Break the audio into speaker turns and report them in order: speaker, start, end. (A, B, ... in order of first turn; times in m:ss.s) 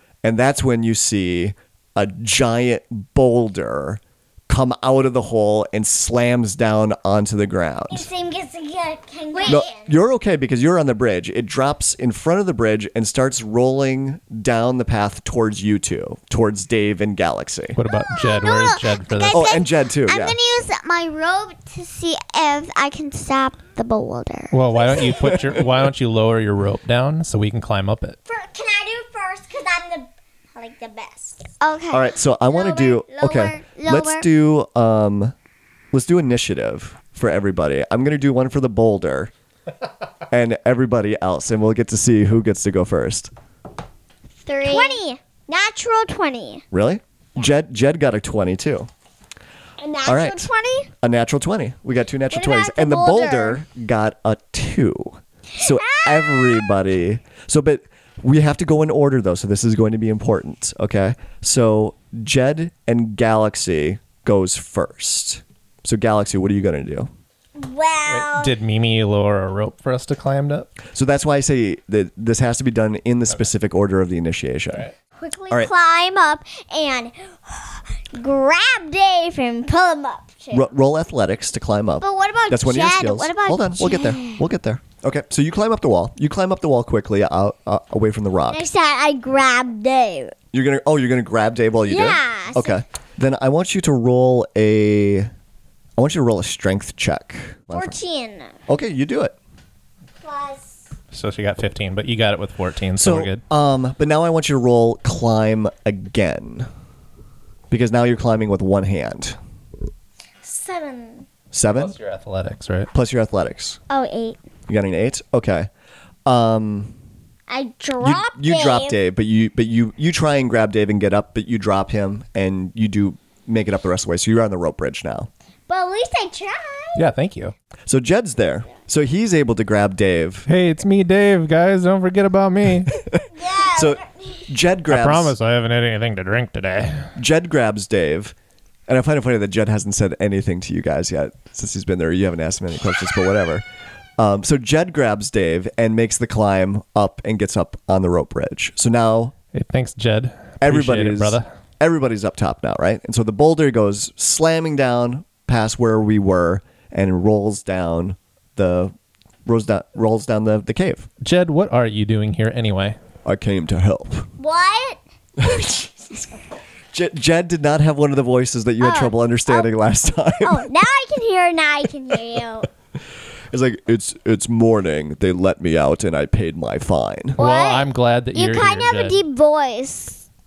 0:00.2-0:08.1 A
0:07.9-0:09.9 B
0:09.3-0:09.7 C
0:09.4-0:17.8 A
0:17.8-0:19.5 D
0:17.9-0:25.0 C
0:19.3-0:20.4 A
0:24.5-0:28.2 D
0:24.8-0:25.3 B
0:25.2-0:25.6 A
0:28.3-0:31.5 B
0:31.6-0:32.1 C
0:31.9-0:35.3 A
0:32.6-0:34.3 C
0:32.6-0:33.0 B
0:35.9-0:39.3 A
0:40.3-0:43.3 A
0:44.5-0:45.0 C
0:44.5-0:46.6 B
0:46.7-0:48.9 A
0:49.8-0:50.9 B
0:50.0-1:07.1 A
0:52.3-0:53.6 B
0:55.6-0:56.6 B
1:07.5-1:08.5 B
1:08.0-1:10.7 D
1:10.9-1:14.9 A
1:15.2-1:20.7 B
1:20.5-1:28.6 A
1:22.0-1:24.0 B
1:22.2-1:24.4 C
1:28.5-1:30.3 B
1:30.5-1:35.3 A
1:31.9-1:32.8 B
1:36.0-1:38.0 A
1:37.7-1:38.6 B
1:38.7-1:39.3 A
1:40.2-1:40.8 B
1:41.1-1:43.4 D
1:43.0-1:46.7 A
1:47.7-1:49.4 A
1:50.4-1:51.2 B
1:51.5-1:51.9 A
1:51.7-1:52.9 D
1:52.9-1:53.8 A
1:53.9-1:54.4 C
1:54.7-1:55.7 A
1:56.2-1:56.9 A
1:57.5-1:59.0 B
1:58.0-2:05.3 A
2:05.7-2:07.0 B
2:07.0-2:07.5 D
2:07.9-2:10.5 A
2:10.5-2:12.9 D
2:12.9-2:15.3 A
2:13.3-2:14.4 B
2:14.9-2:17.1 D
2:17.2-2:18.3 A
2:18.9-2:23.6 A
2:24.2-2:29.3 A
2:29.5-2:31.5 D
2:30.6-2:38.9 A
2:39.4-2:41.1 A
2:41.2-2:43.0 D
2:43.2-2:44.3 A
2:44.4-2:45.0 B
2:45.4-2:46.3 A
2:46.9-2:50.7 A
2:48.8-2:49.7 B
2:50.4-2:52.7 B
2:53.5-2:57.4 A
2:57.4-2:59.2 D
2:57.4-3:00.1 B